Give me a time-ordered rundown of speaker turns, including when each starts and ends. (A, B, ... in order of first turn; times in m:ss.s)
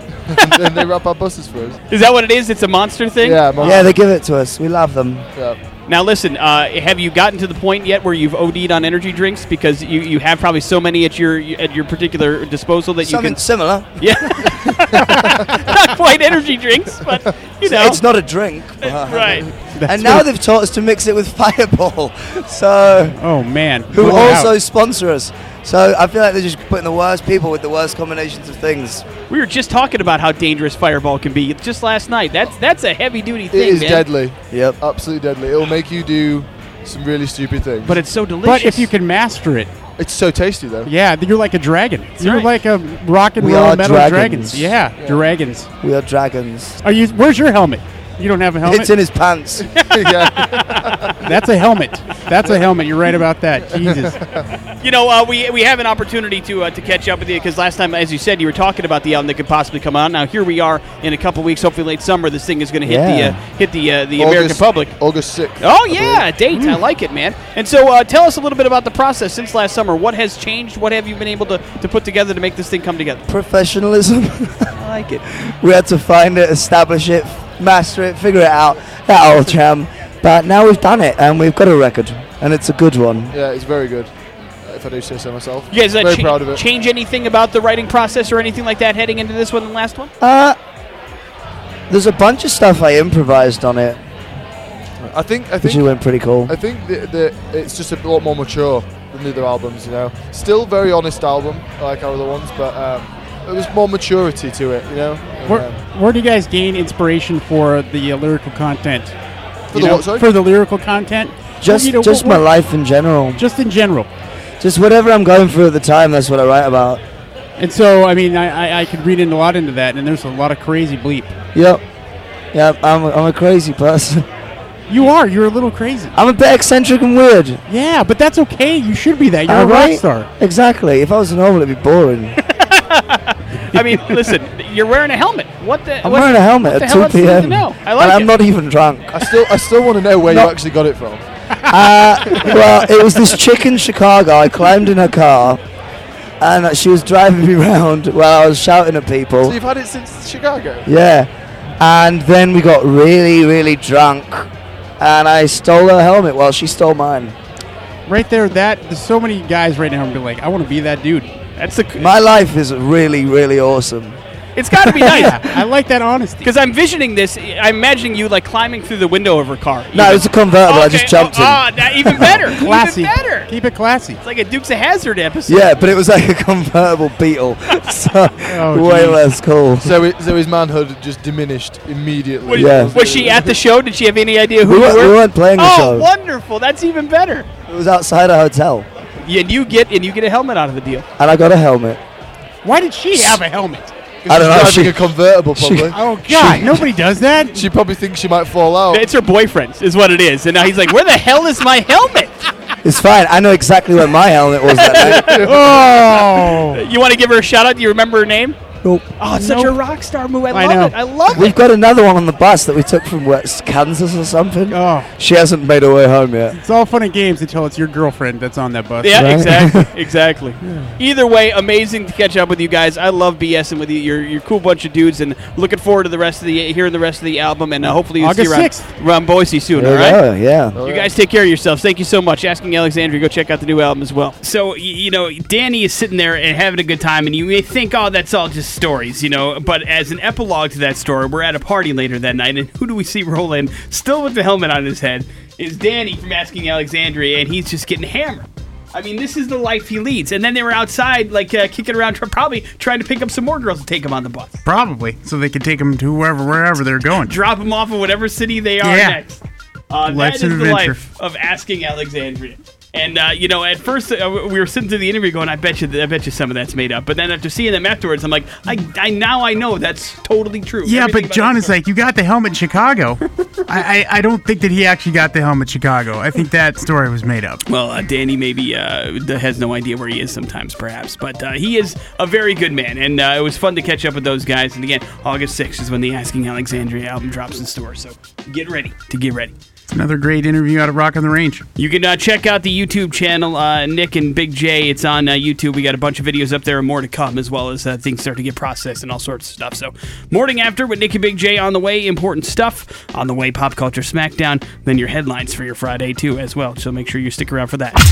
0:00.3-0:01.8 A
0:01.9-0:03.9 B
0:03.2-0:04.0 A
0:03.6-0:05.3 C
0:05.9-0:18.0 B
0:13.0-0:14.2 C
0:17.6-0:23.2 C
0:18.8-0:19.5 B
0:19.8-0:20.2 D
0:23.2-0:24.5 D
0:23.9-0:29.1 C
0:29.3-0:34.1 B
0:33.5-0:38.0 A
0:34.5-0:34.8 C
0:37.8-0:38.9 B
0:38.4-0:39.7 D
0:40.0-0:40.9 A
0:40.9-0:45.7 D
0:42.2-0:42.5 B
0:43.4-0:44.8 C
0:45.0-0:45.3 A
0:45.8-0:46.8 C
0:46.8-0:48.9 D
0:48.6-0:49.7 C
0:49.8-0:51.2 A
0:50.4-0:51.2 B
0:51.2-0:54.2 D
0:53.7-0:54.4 A
0:54.8-1:05.0 B
1:02.8-1:03.4 C
1:04.2-1:06.3 A
1:05.6-1:13.2 B
1:13.3-1:14.7 C
1:14.8-1:15.2 B
1:15.4-1:23.3 C
1:23.3-1:24.1 A
1:24.6-1:26.6 A
1:25.7-1:30.1 B
1:30.2-1:30.6 C
1:31.9-1:34.0 C
1:35.0-1:35.9 A
1:35.6-1:36.6 C
1:36.5-1:45.8 A
1:45.4-1:49.2 D
1:49.7-1:50.3 A
1:49.7-1:52.4 D
1:51.6-1:53.4 C
1:53.4-1:54.1 D
1:54.6-1:57.0 C
1:57.6-2:01.4 D
2:01.6-2:01.8 C
2:02.5-2:04.2 C
2:04.9-2:06.1 D
2:06.2-2:07.6 C
2:07.7-2:10.3 D
2:09.5-2:12.4 C
2:12.5-2:18.3 B
2:13.7-2:14.3 D
2:16.0-2:19.2 C
2:19.1-2:21.2 A
2:20.3-2:20.5 C
2:21.7-2:25.6 C
2:26.4-2:29.6 C
2:29.4-2:30.9 A
2:30.8-2:37.4 C
2:38.1-2:41.3 D
2:41.6-2:42.1 B
2:42.0-2:44.2 C
2:44.6-2:45.6 B
2:44.8-2:46.5 D
2:46.4-2:53.5 B
2:49.9-2:52.5 C
2:52.8-2:54.2 D
2:54.2-2:56.0 B
2:55.5-3:00.0 C
2:58.5-2:59.2 D
2:59.8-3:03.6 A
3:02.4-3:07.5 B
3:02.5-3:03.0 C
3:04.7-3:06.1 C
3:07.7-3:08.9 C
3:09.2-3:11.1 B
3:11.2-3:12.0 C
3:12.6-3:13.9 D
3:14.2-3:16.0 A
3:14.3-3:15.0 C
3:15.6-3:16.8 C
3:15.9-3:17.6 D
3:17.5-3:19.0 A
3:18.9-3:22.4 B
3:22.8-3:25.3 C
3:24.7-3:25.6 B
3:25.0-3:25.6 A
3:25.4-3:26.8 D
3:26.1-3:28.6 B
3:28.8-3:29.1 C
3:29.2-3:31.6 B
3:29.4-3:29.7 D
3:30.5-3:30.9 D
3:31.3-3:36.6 C
3:34.7-3:35.1 D
3:36.6-3:39.3 D
3:39.0-3:50.2 B
3:39.1-3:39.9 C
3:48.2-3:48.9 D
3:49.8-3:50.8 C
3:50.7-3:51.1 A
3:50.8-4:14.6 B
4:14.7-4:17.3 E
4:17.2-4:31.7 B
4:18.8-4:19.2 E
4:20.1-4:21.0 E
4:30.8-4:37.6 E
4:37.7-4:49.5 B
4:49.9-4:51.6 E
4:51.8-5:08.0 B